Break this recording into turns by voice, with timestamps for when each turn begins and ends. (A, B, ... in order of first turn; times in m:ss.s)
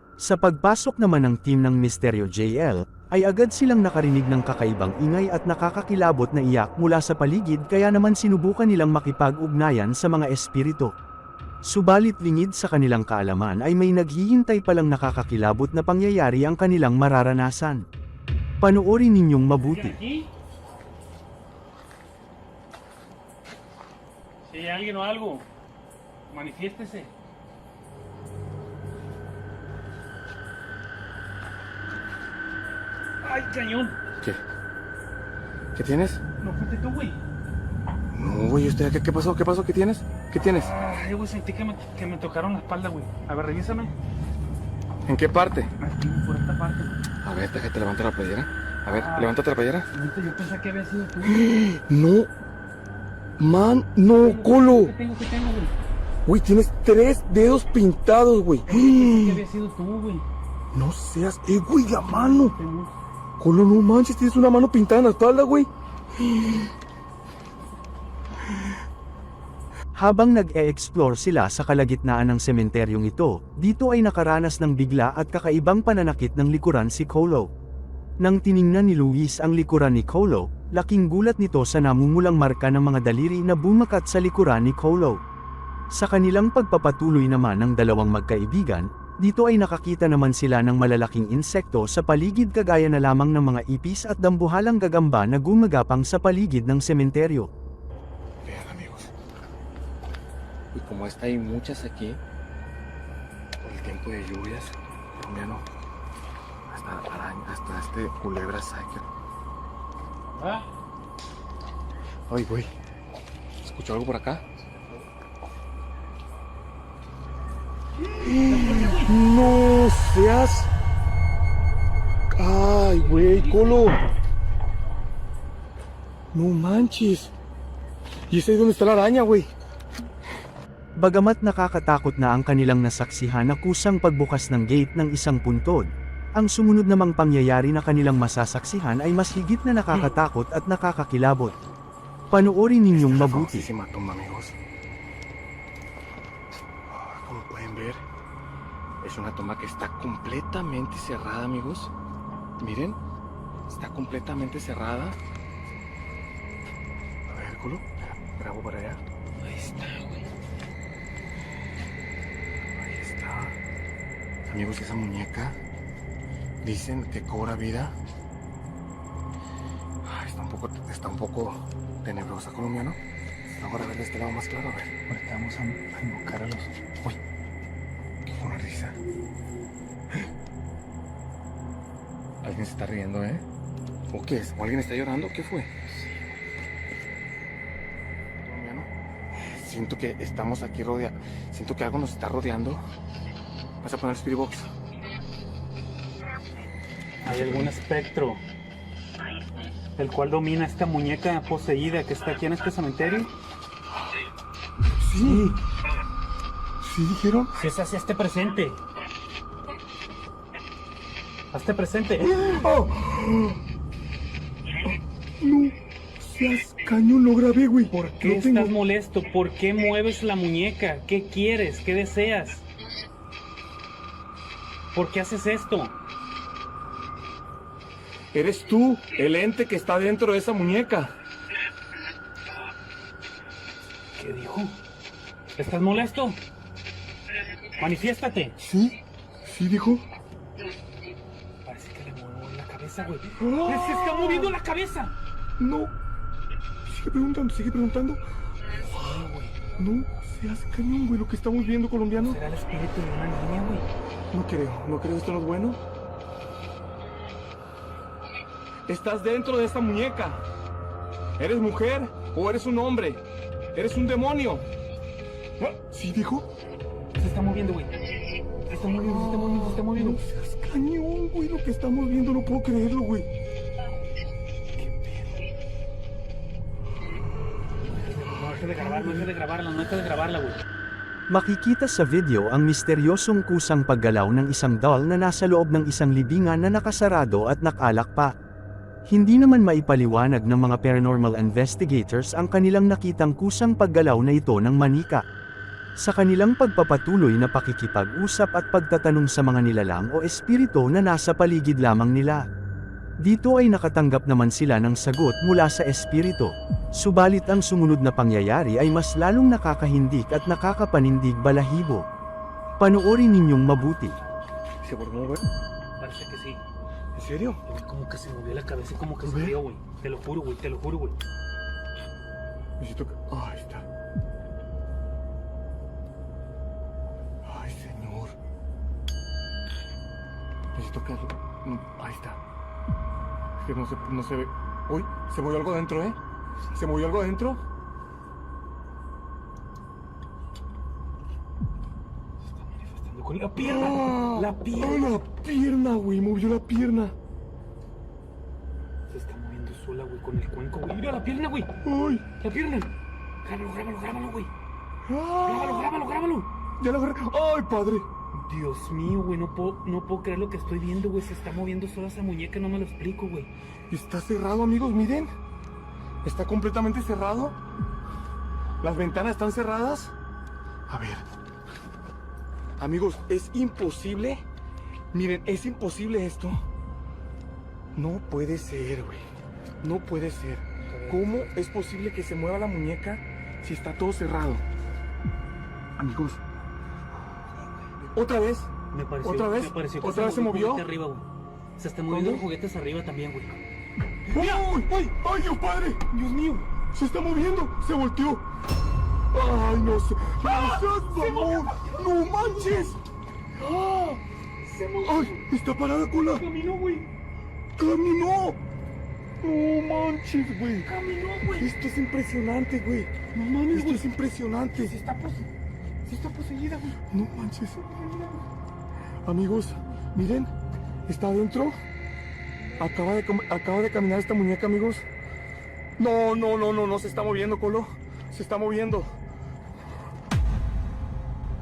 0:00.2-0:10.9 A
0:11.7-0:17.8 A
0:18.6-0:20.0 A
0:19.6-0:20.3 B
0:24.5-0:25.5 B
0:26.3-0:27.1 B
0:33.2-0:34.0 B
0:35.8-0:36.2 C
0:36.4-0:37.2 B
0:38.1-0:40.7 C
0:40.7-0:43.9 B
0:45.1-0:45.7 C
0:45.8-0:46.9 B
0:47.2-0:49.9 C
0:49.0-0:49.4 B
0:49.9-0:51.5 B
0:51.3-0:52.3 C
0:53.4-0:55.0 C
0:54.2-0:55.8 B
0:56.2-0:59.4 C
0:58.7-1:00.3 B
1:00.7-1:02.6 C
1:01.9-1:02.9 B
1:03.4-1:05.7 C
1:10.0-1:17.5 A
1:18.2-1:25.2 A
1:25.9-1:37.5 A
1:38.4-1:39.1 C
1:40.7-1:42.2 C
1:43.6-1:45.6 C
1:46.7-1:49.1 C
1:50.4-1:50.7 B
1:52.3-1:52.7 C
1:53.6-1:54.4 C
1:58.2-2:00.7 C
1:58.5-1:59.2 B
2:02.3-2:04.0 C
2:06.3-2:07.3 C
2:08.3-2:09.5 C
2:11.0-2:21.6 A
2:22.3-2:23.7 A
2:22.9-2:24.6 C
2:26.9-2:28.0 C
2:29.0-2:31.9 C
2:32.6-2:33.0 C
2:33.7-2:35.2 C
2:37.3-2:39.0 C
2:39.6-2:40.1 C
2:42.8-2:43.6 C
2:44.5-2:45.6 C
2:46.6-2:48.0 C
2:50.0-2:53.0 C
2:53.5-2:55.0 C
2:55.1-2:57.2 B
2:58.3-2:59.0 C
3:02.4-3:03.4 C
3:04.1-3:05.7 C
3:08.4-3:12.8 C
3:13.8-3:14.7 C
3:17.2-3:18.4 B
3:17.3-3:17.7 C
3:20.0-3:23.3 B
3:25.0-3:25.5 C
3:25.2-3:25.6 B
3:26.8-3:27.6 C
3:27.6-3:28.8 B
3:31.5-3:32.4 B
3:32.3-3:33.6 C
3:35.4-3:38.7 C
3:37.9-3:42.6 B
3:44.9-3:46.0 B
3:48.3-3:51.1 C
3:54.2-3:54.8 B
3:55.6-3:56.4 B
3:57.8-3:58.6 B
3:58.6-4:00.1 C
4:01.6-4:05.1 B
4:03.4-4:04.6 C
4:05.6-4:06.0 C
4:06.9-4:08.2 C
4:08.8-4:09.6 B
4:09.8-4:12.4 C
4:12.2-4:13.9 B
4:14.3-4:15.8 C
4:18.9-4:20.4 C
4:21.4-4:23.2 C
4:23.8-4:24.7 C
4:25.6-4:26.5 C
4:27.2-4:28.0 B
4:28.7-4:30.2 B
4:28.9-4:33.3 C
4:34.7-4:35.4 B
4:37.9-4:40.6 B
4:38.4-4:39.3 C
4:41.3-4:48.3 A
4:49.1-4:55.2 A
4:56.0-5:02.4 A
5:03.2-5:12.1 A
5:12.8-5:14.2 A
5:14.8-5:15.5 C
5:16.0-5:16.6 B
5:17.2-5:17.6 C
5:17.7-5:21.2 B
5:19.2-5:19.6 C
5:22.8-5:23.9 C
5:27.4-5:28.4 C
5:30.7-5:32.4 C
5:33.6-5:36.2 C
5:36.8-5:37.6 C
5:42.4-5:45.2 B
5:43.6-5:47.2 C
5:49.1-5:51.7 B
5:51.8-5:52.4 C
5:52.4-5:54.5 B
5:55.1-5:55.9 C
5:55.4-5:56.5 B
5:56.8-5:58.1 C
5:58.3-6:03.5 B
6:03.9-6:05.3 C
6:06.2-6:07.6 C
6:08.8-6:10.1 C
6:10.9-6:11.2 C
6:12.8-6:14.4 C
6:15.1-6:16.7 C
6:17.9-6:19.3 C
6:19.8-6:24.6 C
6:20.9-6:21.5 B
6:26.0-6:26.4 C
6:28.0-6:30.9 C
6:28.9-6:31.3 B
6:31.8-6:33.6 B
6:32.1-6:32.4 C
6:34.3-6:34.7 B
6:34.3-6:36.0 C
6:36.1-6:36.7 B
6:36.9-6:38.5 C
6:39.3-6:43.0 C
6:40.7-6:41.6 B
6:43.6-6:44.2 C
6:44.6-6:45.5 B
6:45.0-6:46.5 C
6:46.2-6:47.1 B
6:47.8-6:48.6 C
6:49.4-6:50.9 C
6:50.8-6:51.7 B
6:51.6-6:55.0 C
6:53.3-6:54.0 B
6:54.8-6:55.5 B
6:56.1-6:58.5 C
6:56.2-6:56.5 B
6:59.2-7:00.5 C
7:01.1-7:01.8 C
7:02.8-7:05.0 C
7:06.0-7:09.1 C